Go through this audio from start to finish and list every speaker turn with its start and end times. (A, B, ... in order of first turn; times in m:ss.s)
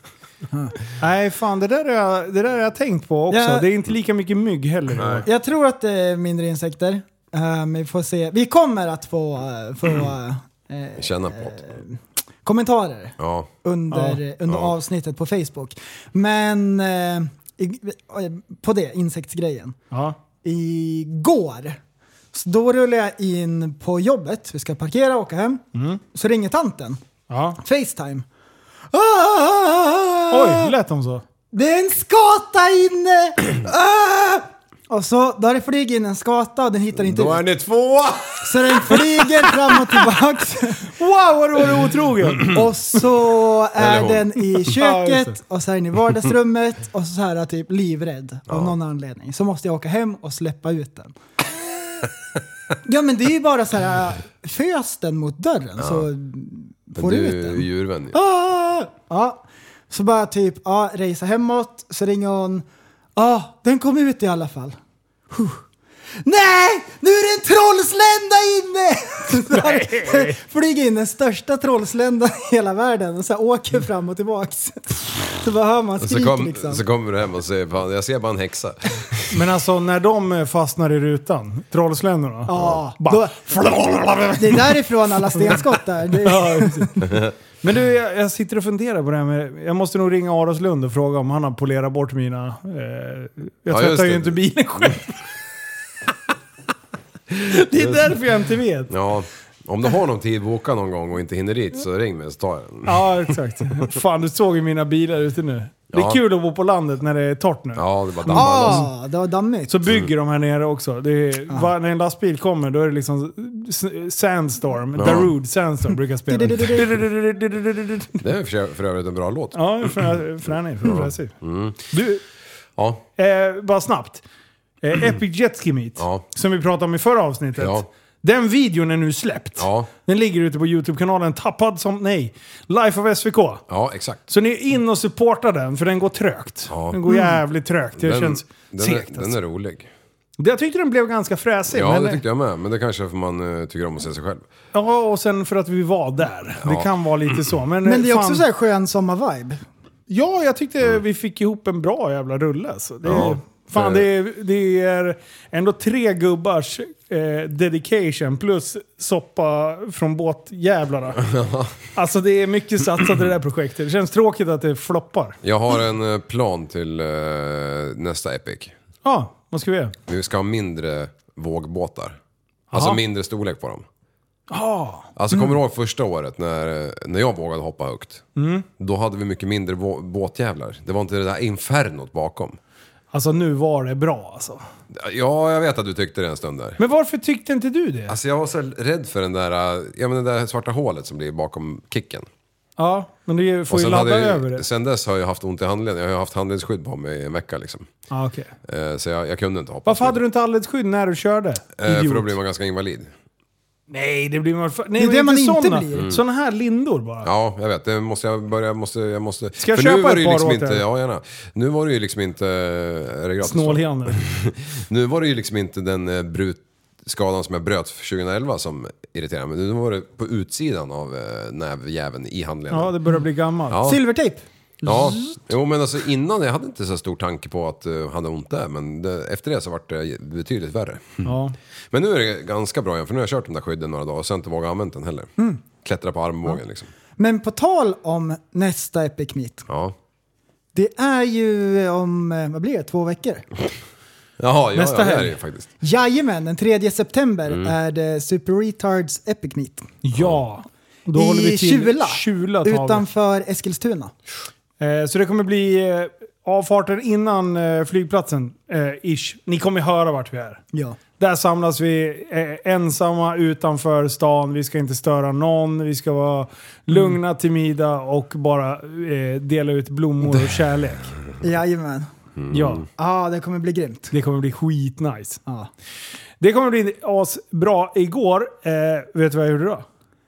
0:01.0-0:05.3 A
0:03.3-0:03.6 B
0:05.0-0:05.3 C
0:05.2-0:19.8 B
0:11.0-0:11.6 C
0:13.2-0:13.5 C
0:13.9-0:14.2 A
0:19.9-0:20.2 A
0:20.4-0:21.8 B
0:22.3-0:27.0 B
0:25.7-0:26.0 A
0:27.3-0:27.6 A
0:27.6-0:28.2 B
0:28.9-0:30.7 B
0:30.3-0:31.2 A
0:31.5-0:37.4 B
0:36.9-0:39.1 C
0:38.4-0:40.9 B
0:40.9-0:42.6 A
0:42.4-0:51.2 B
0:43.8-0:44.4 C
0:44.6-0:45.4 A
0:48.5-0:48.7 C
0:52.8-1:04.8 B
0:55.8-0:56.1 C
0:56.9-0:58.2 C
1:05.3-1:05.6 B
1:06.2-1:16.8 B
1:09.3-1:10.4 A
1:16.0-1:19.4 C
1:19.3-1:35.2 A
1:22.5-1:23.5 B
1:24.4-1:27.0 B
1:33.7-1:35.0 C
1:37.3-1:38.9 A
1:37.8-1:38.1 C
1:38.9-1:43.8 C
1:42.8-1:48.9 A
1:45.9-1:46.2 C
1:47.8-1:48.9 C
1:48.3-1:49.7 B
1:49.7-1:58.3 A
1:54.9-1:55.3 C
1:56.3-1:56.9 B
1:58.2-2:00.1 C
1:59.5-2:01.4 A
2:00.8-2:01.8 C
2:01.9-2:02.2 A
2:02.8-2:03.0 C
2:03.2-2:04.2 A
2:04.8-2:13.6 A
2:06.0-2:06.2 C
2:07.6-2:07.8 C
2:09.6-2:09.9 C
2:13.7-2:14.2 C
2:14.3-2:19.3 A
2:16.7-2:17.0 C
2:18.0-2:19.9 C
2:20.4-2:22.2 A
2:21.7-2:24.4 C
2:24.7-2:28.4 A
2:26.6-2:26.9 C
2:27.8-2:29.6 B
2:30.1-2:41.2 A
2:33.0-2:34.0 C
2:41.2-2:41.7 C
2:41.9-2:45.4 A
2:45.4-2:48.7 C
2:49.0-2:49.9 A
2:50.1-2:52.2 C
2:52.7-2:53.0 A
2:52.7-2:53.8 C
2:54.5-2:55.1 A
2:55.2-2:58.2 C
2:58.4-2:58.6 A
2:58.8-3:02.6 C
3:03.1-3:04.6 A
3:04.9-3:06.8 C
3:06.8-3:08.2 A
3:08.1-3:12.3 C
3:12.8-3:14.6 A
3:13.7-3:17.9 C
3:18.1-3:18.5 A
3:18.6-3:20.2 C
3:19.8-3:22.3 A
3:21.8-3:23.1 C
3:23.9-3:27.3 A
3:25.0-3:26.2 B
3:27.2-3:42.9 C
3:29.6-3:30.8 A
3:33.4-3:34.2 A
3:42.7-3:43.9 A
3:43.7-3:44.0 C
3:43.8-3:44.4 B
3:44.8-3:51.4 C
3:44.9-3:45.1 A
3:51.2-3:51.6 A
3:51.9-3:55.3 C
3:55.8-3:56.9 C
3:57.2-3:59.7 B
3:59.7-3:59.9 C
4:00.7-4:03.4 B
4:04.4-4:05.7 C
4:04.7-4:05.4 A
4:05.8-4:09.9 B
4:07.5-4:07.7 C
4:10.0-4:13.0 A
4:11.1-4:14.1 B
4:14.8-4:20.6 A
4:21.2-4:31.1 A
4:31.4-4:32.1 B
4:32.4-4:32.8 C
4:32.5-4:32.8 A
4:33.0-4:34.1 B
4:34.1-4:35.4 A
4:36.4-4:39.8 A